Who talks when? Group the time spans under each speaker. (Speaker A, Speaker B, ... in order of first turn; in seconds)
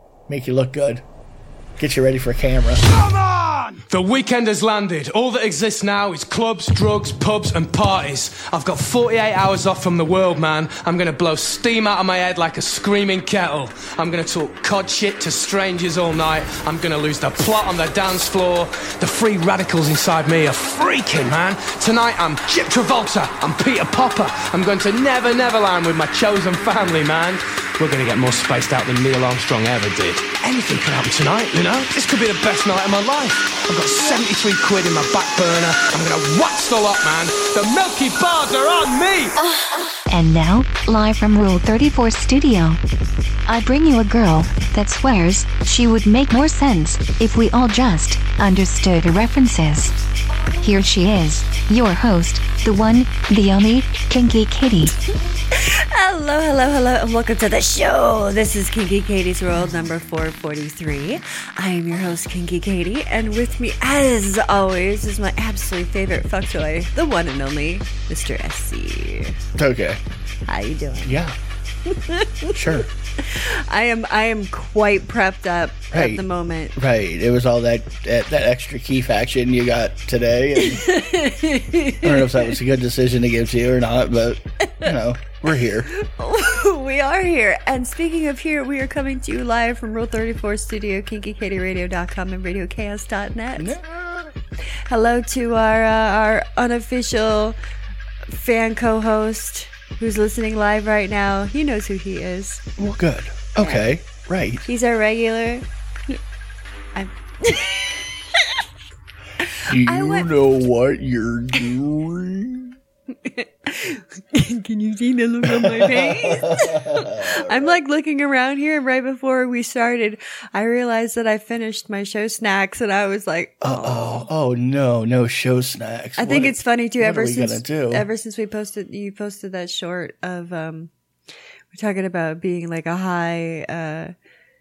Speaker A: 0.3-1.0, 1.8-2.8, 69.5-70.0, 71.0-71.3, 72.5-72.9, 75.9-76.2, 76.8-80.9, 82.0-85.9, 93.6-94.3, 102.8-104.6, 109.6-112.7, 115.4-117.8, 123.6-128.1
Speaker B: 2.9-39.4
Speaker C: 40.1-42.8, 43.5-50.0, 50.6-55.0
Speaker D: 55.5-69.4, 70.5-71.2, 71.8-76.8, 80.5-82.6, 85.9-93.8, 94.9-97.6, 98.3-102.6, 103.6-103.9, 104.6-106.2, 106.9-108.6, 109.4-110.3, 113.2-124.3, 126.2-130.9, 131.7-134.1